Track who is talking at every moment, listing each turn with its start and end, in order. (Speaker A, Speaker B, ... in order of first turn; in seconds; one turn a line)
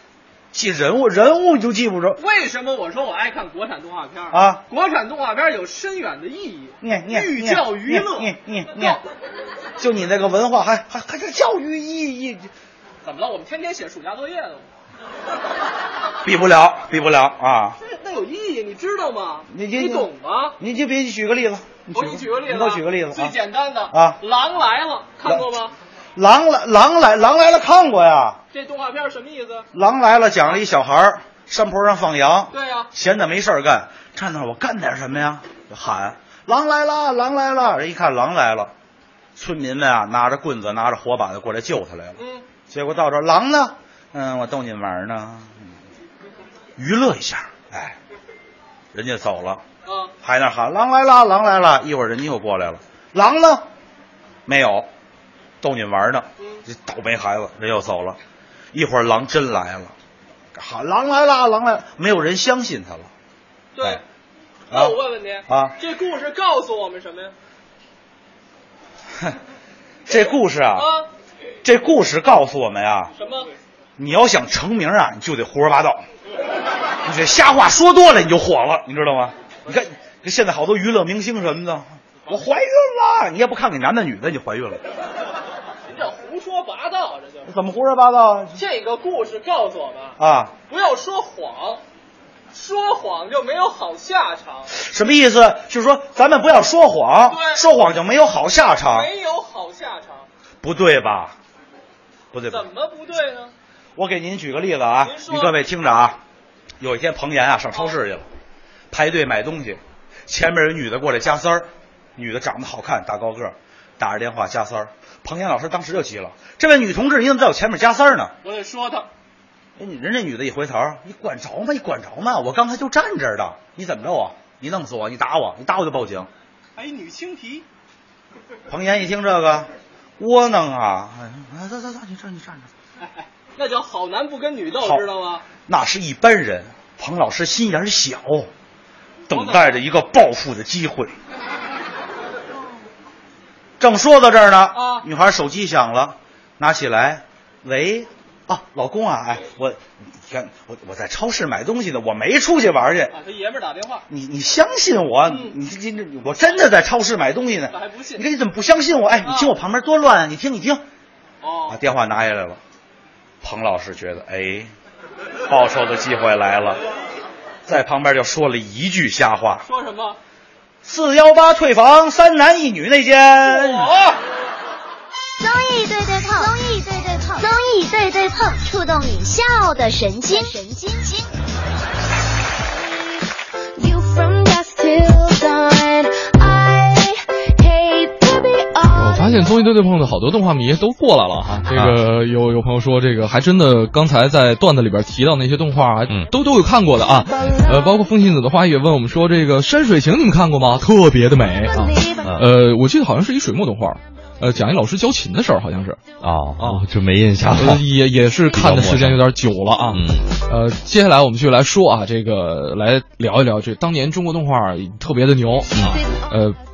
Speaker A: 0.5-2.2
Speaker B: 2.2-9.0
Speaker A: 4.3-4.6
Speaker A: 6.8-9.0
Speaker A: 9.8-12.5
Speaker B: 13.0-14.6
Speaker A: 16.2-17.8
Speaker B: 17.8-20.6
Speaker A: 19.5-20.1
Speaker A: 20.6-23.3
Speaker B: 21.9-25.7
Speaker A: 23.9-24.2
Speaker A: 26.1-28.4
Speaker B: 28.5-29.7
Speaker A: 29.7-38.7
Speaker B: 32.5-32.9
Speaker A: 39.4-42.2
Speaker B: 42.2-42.4
Speaker A: 42.7-45.6
Speaker A: 46.8-48.0
Speaker A: 48.9-49.6
Speaker B: 49.9-50.1
Speaker A: 50.2-53.6
Speaker A: 54.5-54.9
Speaker A: 55.6-58.2
Speaker A: 58.7-59.9
Speaker A: 60.5-63.1
Speaker B: 63.8-64.0
Speaker A: 64.7-65.7
Speaker B: 64.7-67.3
Speaker A: 70.1-70.9
Speaker B: 70.1-71.1
Speaker A: 71.6-73.1
Speaker B: 73.2-73.5
Speaker A: 74.0-76.0
Speaker A: 77.0-84.8
Speaker B: 85.9-87.5
Speaker A: 87.5-88.6
Speaker B: 88.6-90.2
Speaker A: 90.2-90.5
Speaker B: 90.7-91.8
Speaker B: 92.5-94.7
Speaker A: 94.7-99.1
Speaker B: 97.3-97.7
Speaker B: 98.7-100.3
Speaker A: 100.6-101.3
Speaker A: 102.3-102.7
Speaker B: 102.5-103.5
Speaker A: 104.0-106.2
Speaker B: 105.0-105.6
Speaker A: 106.8-108.2
Speaker A: 108.9-118.3
Speaker B: 118.4-119.1
Speaker A: 119.8-126.3
Speaker B: 126.8-127.6
Speaker A: 128.7-132.7
Speaker B: 133.0-135.4
Speaker A: 135.7-138.5
Speaker A: 139.3-141.1
Speaker B: 139.3-139.8
Speaker A: 143.8-153.1
Speaker B: 144.7-145.0
Speaker B: 153.1-154.0
Speaker A: 154.1-160.8
Speaker B: 155.3-155.6
Speaker B: 157.7-158.2
Speaker B: 159.2-159.5
Speaker B: 161.4-161.8
Speaker A: 161.7-162.6
Speaker A: 163.4-164.7
Speaker A: 165.5-166.8
Speaker A: 167.7-169.6
Speaker B: 169.7-170.2
Speaker A: 170.8-173.9
Speaker B: 173.4-174.2
Speaker C: 175.4-181.3
Speaker D: 183.7-189.4
Speaker E: 188.9-206.0
Speaker F: 191.7-192.0
Speaker D: 197.5-197.8
Speaker D: 201.7-202.3
Speaker F: 202.2-202.5
Speaker F: 206.2-207.9
Speaker E: 206.6-206.8
Speaker E: 207.6-216.6
Speaker F: 208.5-209.2
Speaker F: 209.9-210.3
Speaker F: 215.7-216.0
Speaker D: 215.9-216.2